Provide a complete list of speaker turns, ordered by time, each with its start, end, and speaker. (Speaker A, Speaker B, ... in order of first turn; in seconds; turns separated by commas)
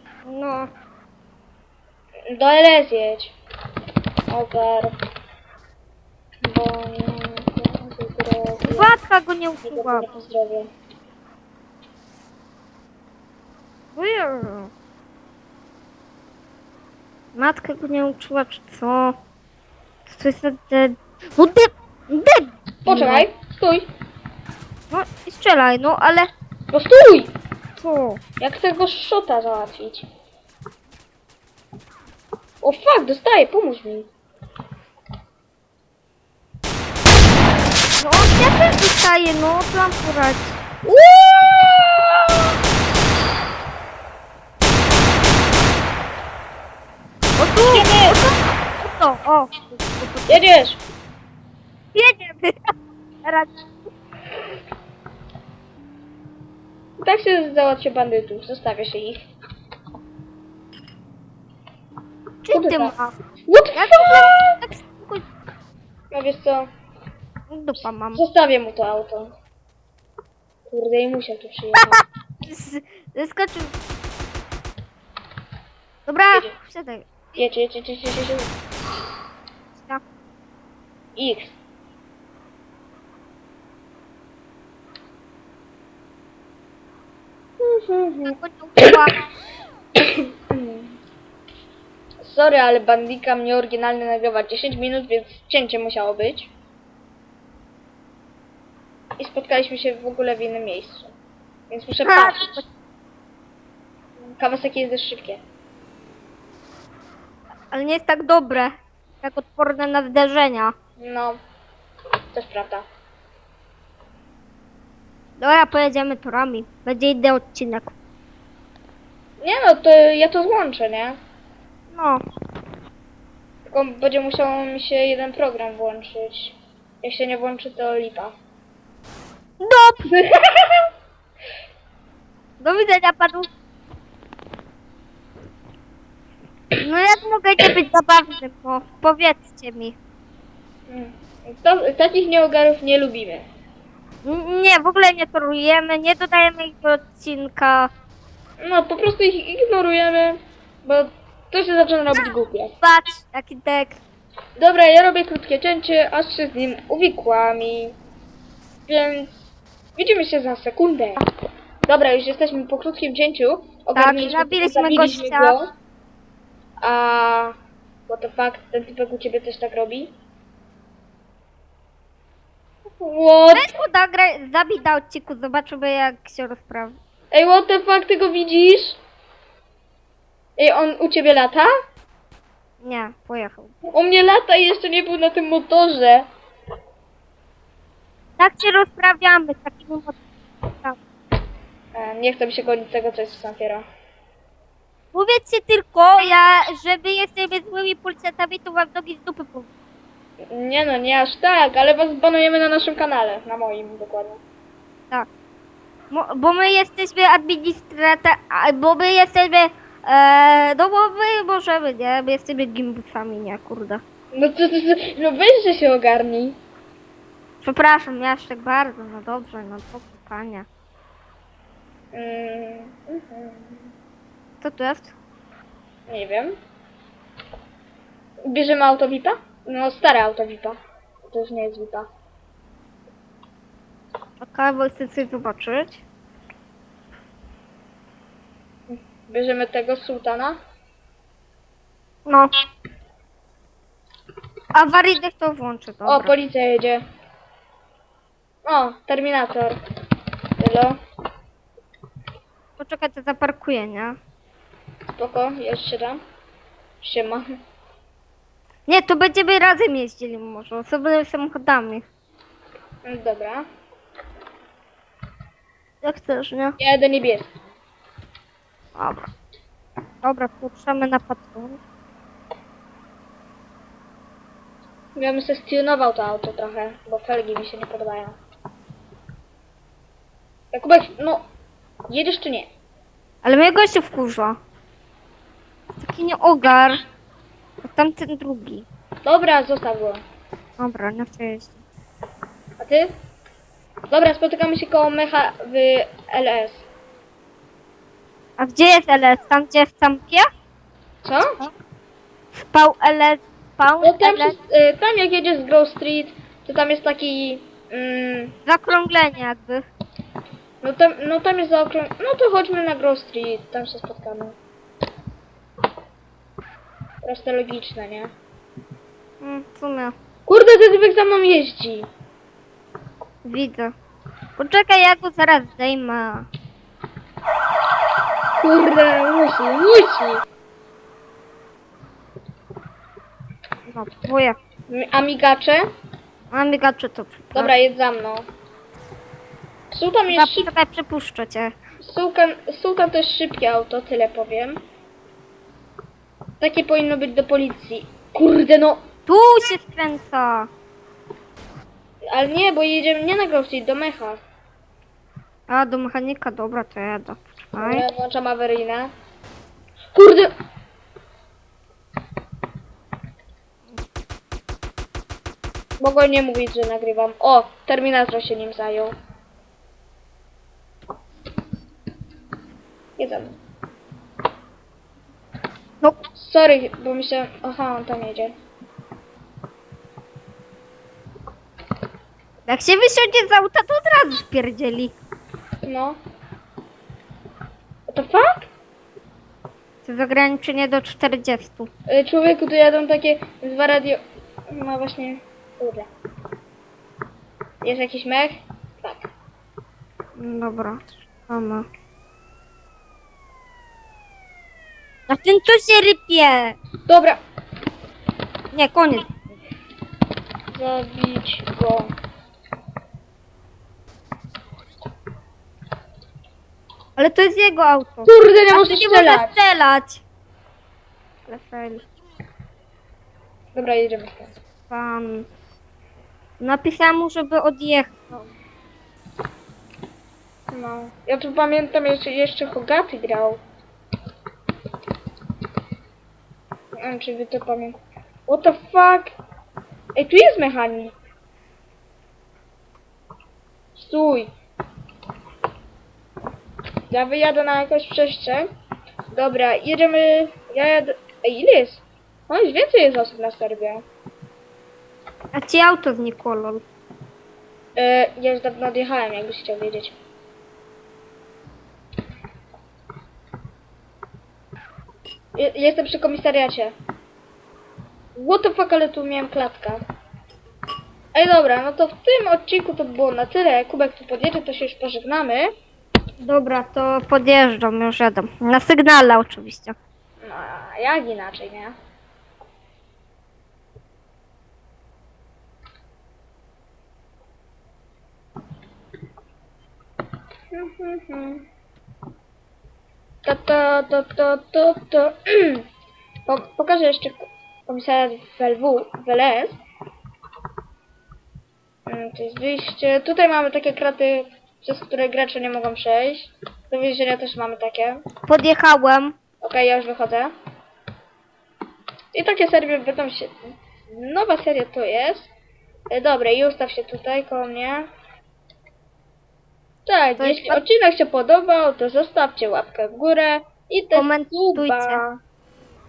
Speaker A: 0.2-0.7, Speaker B: 2.3-3.3, Speaker B: 4.3-4.9, Speaker B: 6.4-8.9, Speaker A: 8.7-10.1, Speaker B: 9.7-10.7, Speaker A: 13.9-14.7, Speaker A: 17.3-19.1, Speaker A: 20.1-23.2, Speaker B: 22.8-23.9, Speaker A: 24.9-26.3, Speaker B: 26.7-27.3, Speaker A: 27.8-28.2, Speaker B: 28.4-30.1, Speaker B: 32.6-34.1, Speaker A: 38.0-40.6, Speaker B: 40.9-42.5, Speaker A: 47.4-50.4, Speaker B: 47.6-48.2, Speaker B: 50.3-50.8, Speaker A: 51.9-52.7, Speaker A: 53.2-53.6, Speaker B: 57.0-59.2, Speaker A: 62.4-63.1, Speaker B: 62.5-62.9, Speaker B: 63.5-64.5, Speaker A: 63.7-65.2, Speaker B: 66.1-66.7, Speaker A: 67.5-68.2, Speaker B: 68.1-69.3, Speaker B: 70.7-72.0, Speaker A: 72.4-73.7, Speaker A: 76.1-77.1, Speaker B: 77.3-78.5, Speaker A: 79.7-80.0, Speaker B: 81.2-81.6, Speaker B: 87.6-88.9, Speaker A: 88.2-89.2, Speaker B: 90.5-91.0, Speaker B: 92.2-96.5, Speaker B: 99.2-101.1, Speaker B: 101.7-102.6, Speaker A: 102.0-102.6, Speaker B: 104.4-105.4, Speaker A: 107.7-110.7, Speaker B: 111.0-111.4, Speaker B: 112.3-112.8, Speaker A: 115.4-117.9, Speaker B: 119.4-121.2, Speaker A: 121.9-122.2, Speaker B: 123.7-128.3, Speaker A: 129.6-130.1, Speaker B: 130.1-130.8, Speaker A: 132.6-133.5, Speaker A: 136.8-139.9, Speaker B: 140.9-143.5, Speaker A: 144.2-147.9, Speaker B: 148.6-152.7, Speaker A: 152.2-154.0, Speaker B: 154.6-158.0, Speaker B: 158.9-159.4, Speaker B: 159.9-161.2, Speaker B: 161.8-165.7, Speaker A: 163.9-165.6, Speaker B: 166.8-167.6, Speaker B: 168.1-170.1, Speaker B: 173.0-173.7, Speaker A: 173.5-177.0, Speaker B: 177.3-179.0, Speaker B: 180.6-181.7, Speaker A: 182.8-183.9, Speaker B: 183.9-186.3, Speaker A: 188.4-190.2, Speaker B: 191.9-193.8, Speaker A: 195.1-199.7, Speaker B: 200.5-204.4, Speaker A: 206.1-214.0, Speaker B: 214.3-216.6, Speaker A: 217.6-220.7, Speaker B: 222.1-223.9, Speaker A: 224.6-225.1, Speaker B: 226.1-226.5, Speaker B: 228.5-232.1, Speaker A: 234.4-236.0, Speaker B: 238.9-240.6, Speaker A: 242.3-242.5, Speaker A: 244.7-246.3, Speaker B: 246.1-247.0, Speaker B: 248.6-249.8, Speaker B: 250.6-251.0, Speaker A: 252.8-254.2, Speaker B: 255.2-256.2, Speaker B: 257.0-257.4, Speaker A: 258.9-262.0, Speaker B: 263.0-263.6, Speaker A: 266.0-266.8, Speaker B: 266.8-267.5, Speaker A: 268.9-269.3, Speaker A: 270.2-271.8, Speaker B: 275.1-278.4, Speaker B: 280.7-281.4, Speaker B: 282.1-282.7, Speaker A: 283.4-284.6, Speaker A: 286.0-287.0, Speaker A: 287.8-288.9, Speaker B: 289.2-290.2, Speaker A: 290.8-291.8, Speaker B: 292.8-293.1, Speaker B: 294.1-296.9, Speaker A: 298.6-300.4, Speaker B: 301.2-301.6, Speaker A: 302.6-304.6, Speaker B: 304.0-308.6, Speaker A: 308.6-309.8, Speaker B: 310.8-314.6, Speaker B: 317.2-318.3, Speaker A: 319.4-320.1, Speaker B: 320.5-322.1, Speaker A: 323.4-323.9, Speaker A: 324.6-326.5, Speaker B: 328.6-330.4, Speaker A: 333.9-334.6, Speaker B: 334.9-335.8, Speaker A: 336.5-337.8, Speaker B: 337.5-338.4, Speaker B: 339.9-340.7, Speaker A: 340.3-341.7, Speaker B: 342.0-344.8, Speaker B: 346.6-349.0, Speaker A: 349.3-350.7, Speaker B: 352.3-354.4, Speaker A: 355.7-358.1, Speaker B: 357.8-359.1, Speaker B: 360.1-360.5, Speaker B: 366.0-369.1, Speaker B: 373.2-373.6, Speaker B: 376.4-378.5, Speaker A: 382.6-385.1, Speaker B: 385.8-386.2, Speaker B: 388.1-388.7, Speaker A: 390.0-391.9, Speaker B: 392.1-394.2, Speaker B: 394.7-396.1, Speaker B: 397.8-399.3, Speaker A: 400.4-401.9, Speaker A: 405.3-406.8, Speaker B: 407.1-407.4, Speaker A: 408.7-409.3, Speaker B: 410.7-412.1, Speaker A: 417.2-420.2, Speaker B: 418.2-419.6, Speaker A: 421.5-422.0, Speaker B: 423.7-424.5, Speaker A: 424.9-425.5, Speaker A: 426.6-428.5, Speaker B: 430.7-433.6, Speaker B: 436.9-439.3, Speaker B: 440.1-441.1, Speaker B: 443.9-444.5, Speaker B: 447.1-448.7, Speaker B: 449.3-454.0, Speaker A: 455.5-456.8, Speaker B: 457.9-460.1, Speaker B: 465.6-466.9, Speaker B: 468.4-470.0, Speaker B: 471.3-475.7, Speaker A: 476.4-479.9, Speaker B: 480.4-481.9, Speaker B: 490.7-491.6, Speaker B: 493.4-495.9, Speaker B: 496.5-499.8, Speaker B: 502.1-508.2, Speaker A: 508.5-509.4, Speaker B: 509.6-510.5, Speaker B: 512.3-515.5, Speaker B: 516.1-518.1, Speaker B: 520.0-525.4, Speaker A: 520.4-520.8, Speaker A: 524.1-525.2